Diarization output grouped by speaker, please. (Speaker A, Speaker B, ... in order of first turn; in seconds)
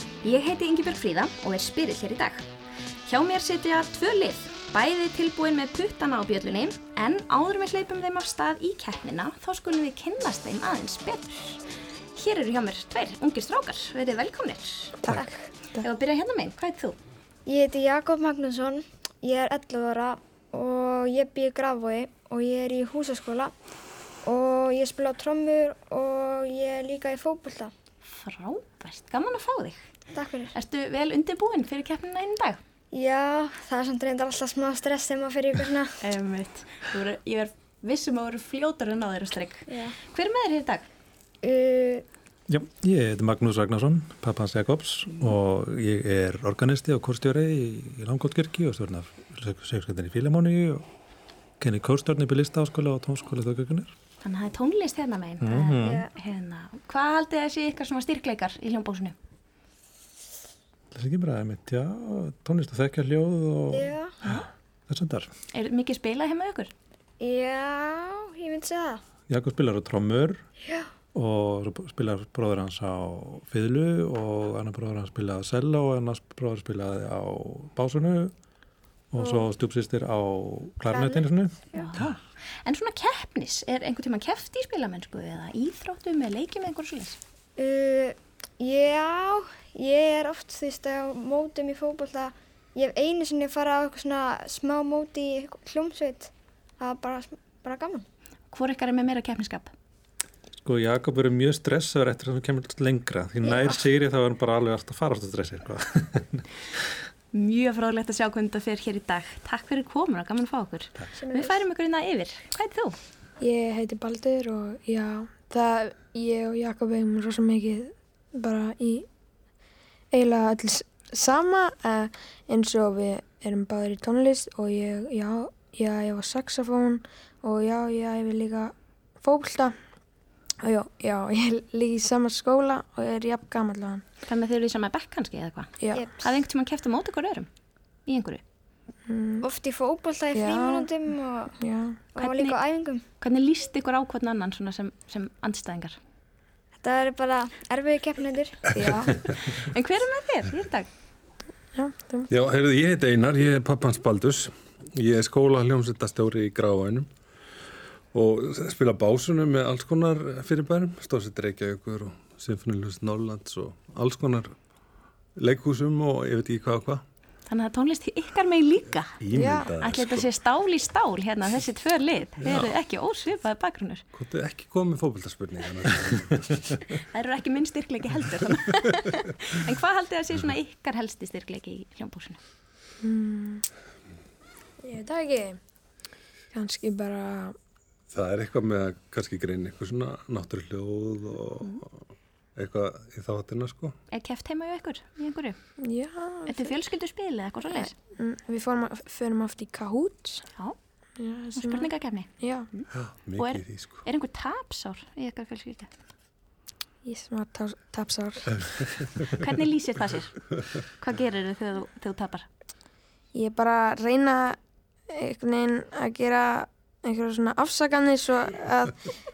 Speaker A: 0.2-2.5, 3.0-11.6, 12.2-15.1, 15.8-17.0, 28.1-29.8, 30.5-32.6, 36.0-40.9, 54.2-59.1, 65.5-66.7, 81.8-87.2, 98.5-99.7, 107.3-113.0, 134.2-137.5, 138.1-138.4, 142.2-142.6, 143.2-146.0, 149.2-150.9, 167.5-169.2, 169.8-174.1, 176.9-182.4, 194.1-195.6, 196.5-197.9, 201.6-205.9, 209.3-212.5
Speaker B: 15.0-15.8, 113.4-119.1, 120.1-129.7, 130.7-134.0, 135.8-136.1, 139.1-139.5, 140.3-140.9, 141.6-142.1, 148.7-149.2, 151.8-152.3, 169.3-169.7, 183.0-183.7, 184.8-185.6, 186.5-187.6, 195.8-196.8, 197.7-200.4, 201.2-202.7, 207.0-208.6, 213.3-214.6, 215.1-219.1
Speaker C: 17.5-23.5, 24.2-27.7, 30.1-30.5, 32.9-36.0, 39.7-40.0, 41.4-42.0, 55.8-56.1, 63.7-64.2, 67.2-69.0, 79.2-79.5, 80.9-81.9, 87.6-98.0, 103.4-103.8, 111.2-111.6, 135.9-136.3, 139.4-141.6, 142.1-143.0, 146.8-148.8
Speaker D: 42.5-50.9, 51.6-53.9, 55.4-56.0, 60.9-65.3, 69.3-70.4, 71.2-78.3, 79.1-82.2, 100.7-106.5
Speaker E: 152.3-157.1, 158.1-164.5, 165.4-167.0, 169.2-170.3, 174.1-176.9, 188.1-191.9, 192.6-193.9, 202.9-204.0